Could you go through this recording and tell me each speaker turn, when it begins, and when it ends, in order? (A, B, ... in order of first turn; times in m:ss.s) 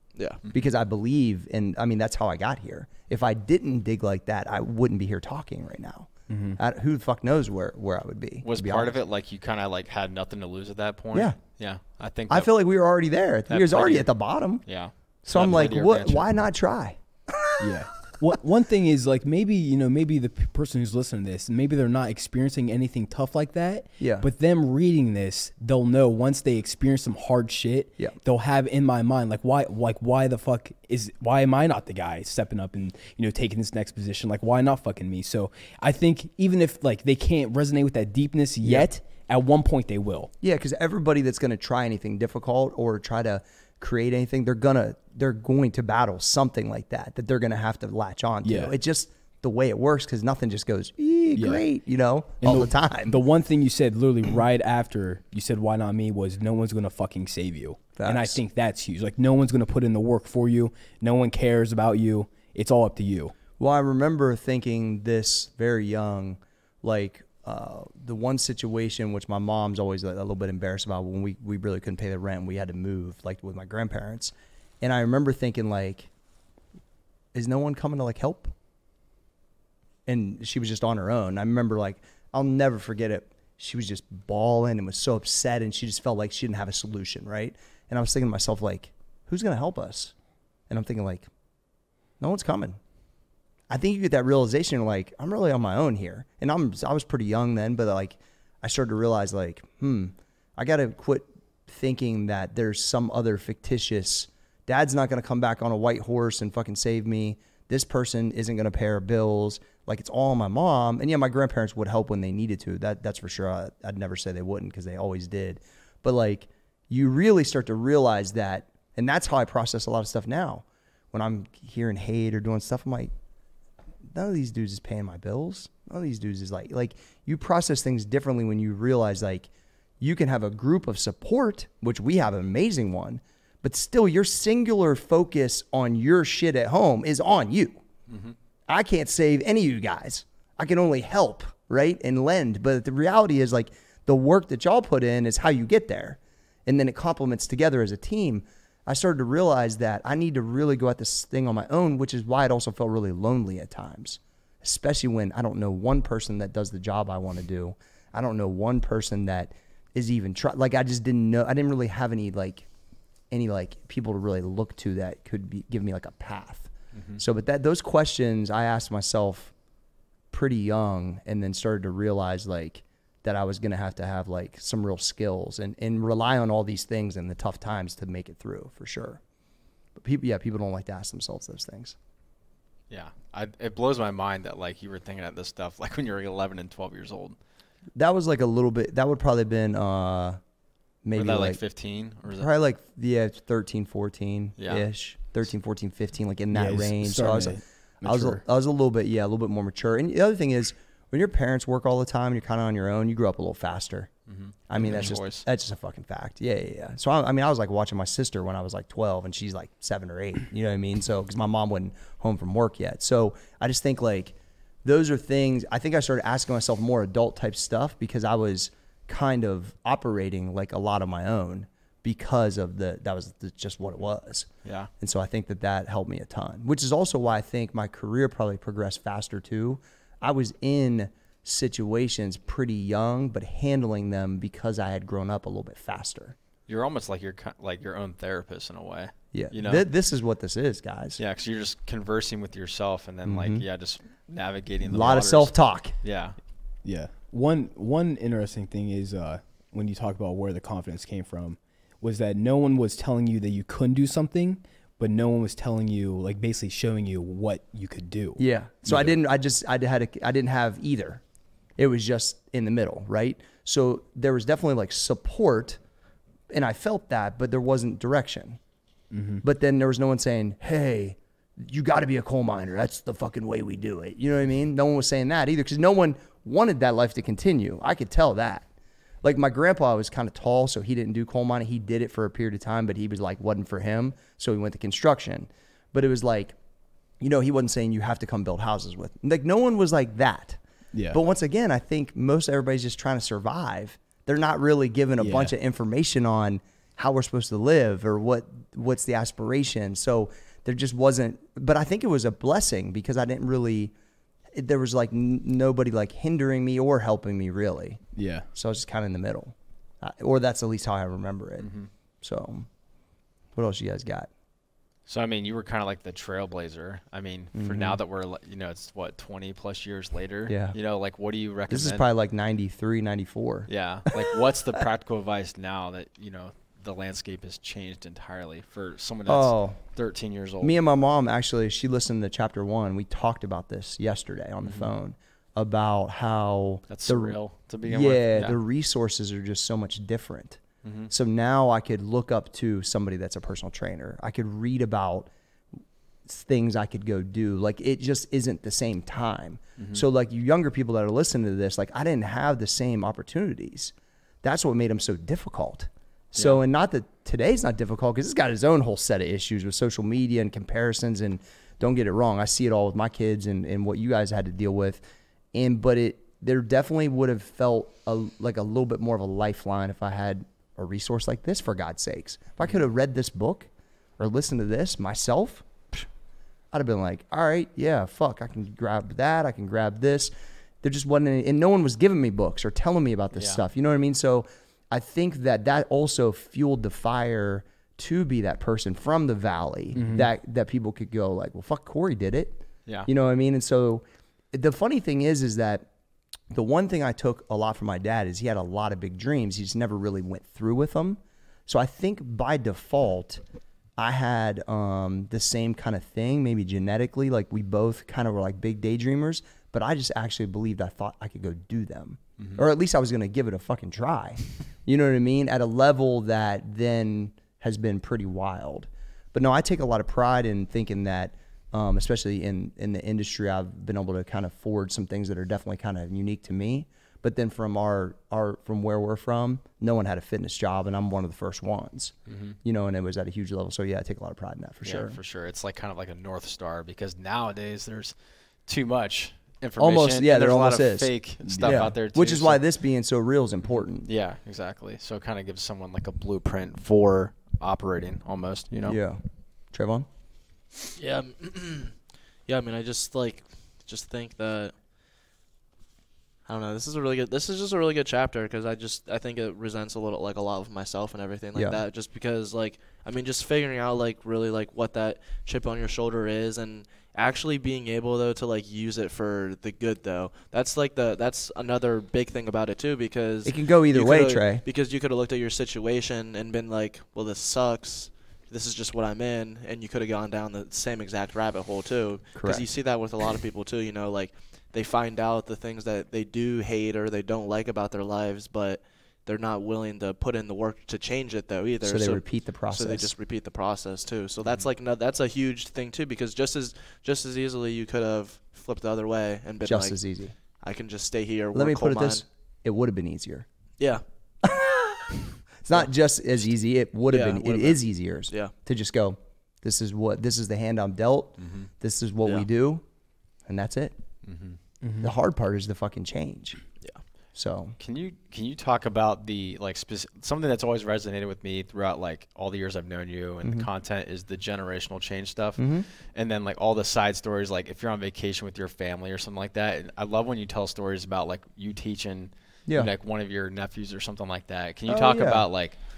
0:00.5-0:09.0 A
0:06.3-0:06.6 B
0:08.4-0:12.5 C
0:12.3-0:14.6 A
0:13.5-0:14.1 C
0:14.6-0:16.3 C
0:15.2-0:17.7 A
0:17.6-0:40.3 B
0:24.0-0:24.3 A
0:40.4-0:53.2 A
0:48.4-0:48.7 B
0:51.4-0:51.6 B
0:52.4-1:03.4 B
0:58.0-0:58.4 A
1:03.6-1:16.1 A
1:17.3-1:18.5 A
1:20.1-1:30.1 A
1:30.7-1:31.3 A
1:32.2-1:32.8 A
1:33.7-2:03.1 A
2:04.1-2:09.5 A
2:10.0-2:17.8 A
2:18.1-2:18.4 C
2:18.7-2:42.7 A
2:43.3-2:49.5 A
2:46.9-2:47.2 C
2:50.3-2:59.2 A
3:00.0-3:02.0 A
3:02.9-3:07.4 C
3:08.0-3:10.4 A
3:11.0-3:11.6 A
3:11.2-3:12.5 C
3:12.3-3:24.1 A
3:14.6-3:14.8 C
3:16.5-3:18.4 B
3:24.3-3:25.4 C
3:24.7-3:44.5 A
3:44.6-3:44.9 C
3:45.0-3:56.4 A
3:56.7-3:59.9 C
3:59.3-4:01.2 A
4:01.2-4:06.4 C
4:03.2-4:03.6 A
4:04.9-4:06.0 A
4:06.8-4:19.2 B
4:18.4-4:21.2 A
4:21.8-4:25.8 A
4:26.5-4:28.6 A
4:29.1-4:29.4 B
4:29.4-4:38.7 A
4:39.2-4:46.6 A
4:47.2-4:50.6 A
4:50.9-4:51.2 B
4:51.1-5:03.9 A
4:55.2-4:55.5 B
5:04.5-5:08.0 A
5:08.2-5:08.5 B
5:08.5-5:12.7 A
5:11.6-5:11.9 C
5:13.6-5:14.3 A
5:15.1-5:22.0 C
5:17.6-5:18.0 A
5:20.5-5:20.8 A
5:21.7-5:24.4 A
5:23.7-5:30.8 C
5:29.3-5:29.8 A
5:30.6-5:45.3 A
5:34.6-5:34.9 C
5:36.9-5:38.6 C
5:40.8-5:41.1 C
5:46.3-6:05.0 A
5:49.8-5:50.0 C
6:05.5-6:16.0 A
6:16.7-6:35.9 A
6:23.4-6:23.6 C
6:30.0-6:30.3 B
6:36.5-6:43.4 A
6:44.0-7:15.2 A
7:12.3-7:12.6 C
7:14.8-7:22.6 C
7:19.8-7:24.1 A
7:21.4-7:21.9 B
7:24.0-7:29.0 C
7:28.8-7:29.2 A
7:29.7-7:30.1 A
7:31.0-7:34.7 D
7:36.5-8:20.0 D
7:41.6-7:41.8 A
7:53.4-7:54.6 A
8:02.4-8:02.7 A
8:11.8-8:13.2 A
8:19.6-8:20.4 A
8:20.6-8:22.2 D
8:21.5-8:23.5 A
8:23.8-8:24.0 D
8:24.4-8:32.8 A
8:27.1-8:28.5 D
8:31.4-8:31.7 C
8:33.5-8:34.0 A
8:34.2-8:34.6 C
8:34.8-8:35.1 B
8:35.0-8:36.6 A
8:37.4-8:37.8 A
8:37.8-8:55.8 C
8:45.6-8:45.9 A
8:54.9-8:55.4 A